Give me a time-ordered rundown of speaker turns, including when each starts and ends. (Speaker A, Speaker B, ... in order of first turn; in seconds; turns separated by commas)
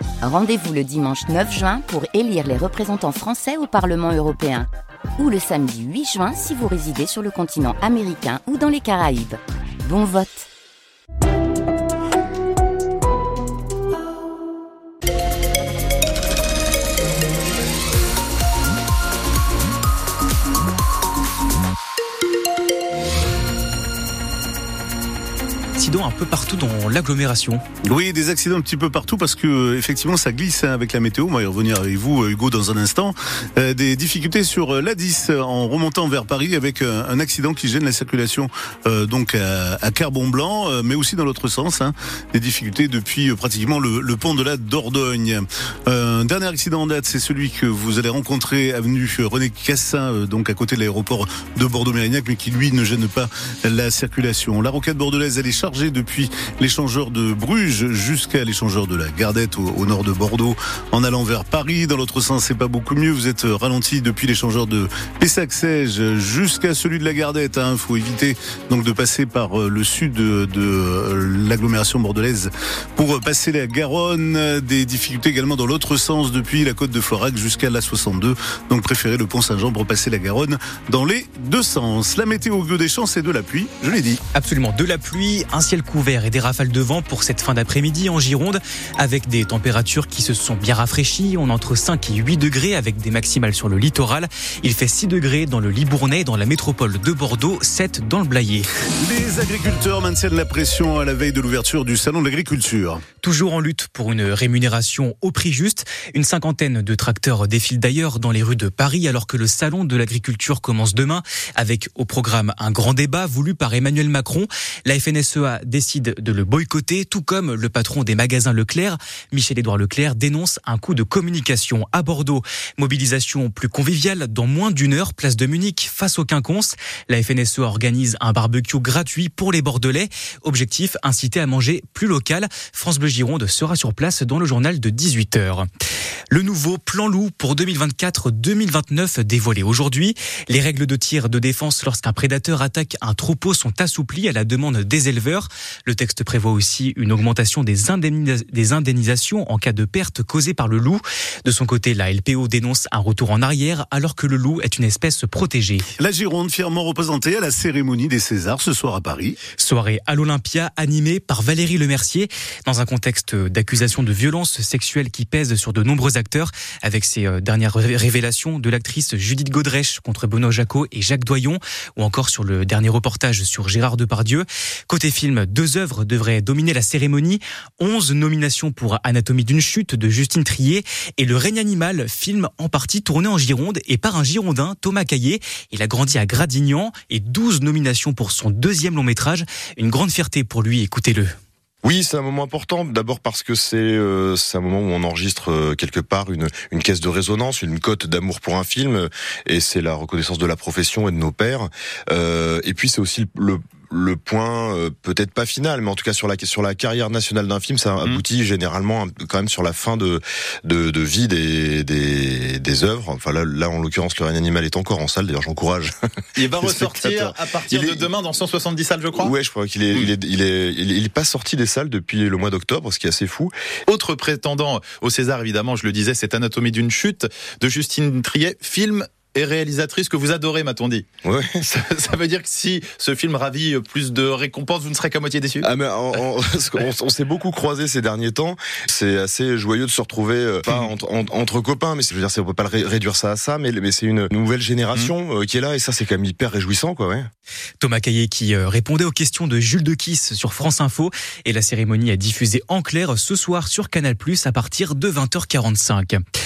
Speaker A: 0.2-10.5, Speaker B: 25.8-27.6, Speaker C: 27.9-84.2, Speaker B: 84.3-98.7, Speaker C: 99.0-103.0, Speaker B: 103.2-135.7, Speaker B: 136.3-155.8, Speaker C: 156.0-159.4, Speaker B: 159.6-191.3, Speaker D: 191.8-215.9, Speaker E: 216.3-219.3, Speaker D: 216.6-218.0, Speaker D: 219.2-223.5, Speaker E: 223.9-231.1, Speaker D: 231.2-231.6, Speaker E: 231.6-235.7, Speaker D: 235.6-247.3, Speaker B: 247.8-256.2